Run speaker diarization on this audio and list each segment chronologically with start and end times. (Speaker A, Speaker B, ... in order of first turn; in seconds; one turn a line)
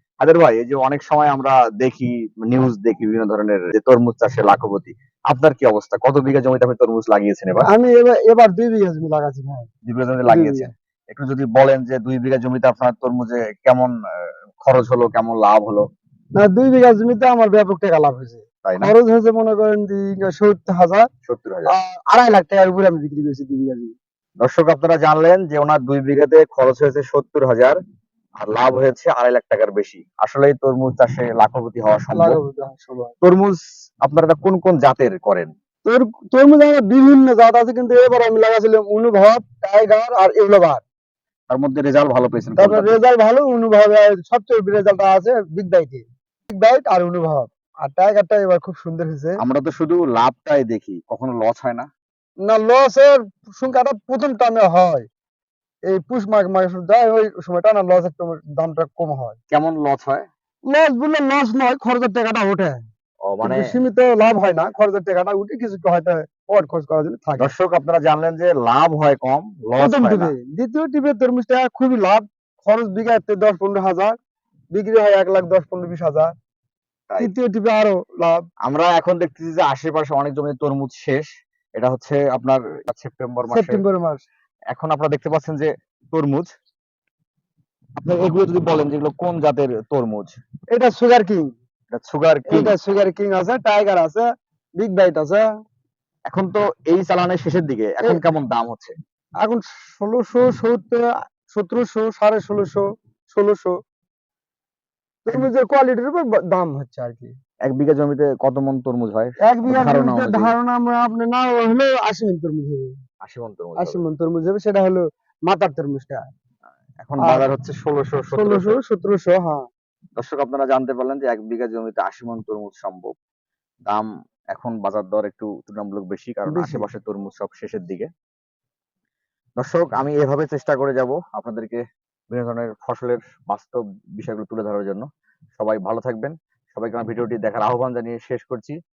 Speaker A: 0.2-7.7
Speaker B: 7.6-9.7
Speaker A: 9.8-13.9
Speaker B: 10.2-10.7
Speaker A: 14.6-15.8
Speaker B: 16.4-21.1
Speaker A: 18.6-18.9
Speaker A: 21.2-21.7
Speaker B: 21.7-23.9
Speaker A: 24.4-27.8
Speaker A: 28.4-32.4
Speaker B: 32.1-33.1
Speaker A: 33.2-35.5
Speaker B: 35.8-40.8
Speaker A: 41.5-42.9
Speaker B: 42.6-49.4
Speaker A: 49.4-51.9
Speaker B: 52.4-55.0
Speaker B: 55.9-59.4
Speaker A: 59.5-60.2
Speaker B: 60.7-62.8
Speaker A: 63.3-63.7
Speaker B: 63.4-67.5
Speaker A: 67.4-70.3
Speaker B: 69.8-74.1
Speaker B: 74.7-76.3
Speaker B: 77.2-78.5
Speaker A: 78.6-83.8
Speaker B: 83.5-84.2
Speaker A: 84.7-86.5
Speaker A: 88.0-90.3
Speaker B: 90.7-91.5
Speaker A: 91.9-92.7
Speaker B: 92.5-94.2
Speaker B: 94.8-95.4
Speaker A: 96.3-98.9
Speaker B: 99.4-103.7
Speaker B: 105.2-107.3
Speaker A: 107.7-110.5
Speaker B: 109.5-113.0
Speaker A: 113.2-114.0
Speaker B: 113.8-116.2
Speaker A: 117.0-118.8
Speaker B: 117.2-117.5
Speaker B: 118.3-119.7
Speaker A: 120.2-123.1
Speaker A: 123.9-128.1
Speaker B: 126.5-126.8
Speaker A: 129.6-135.1
Speaker A: 135.6-138.8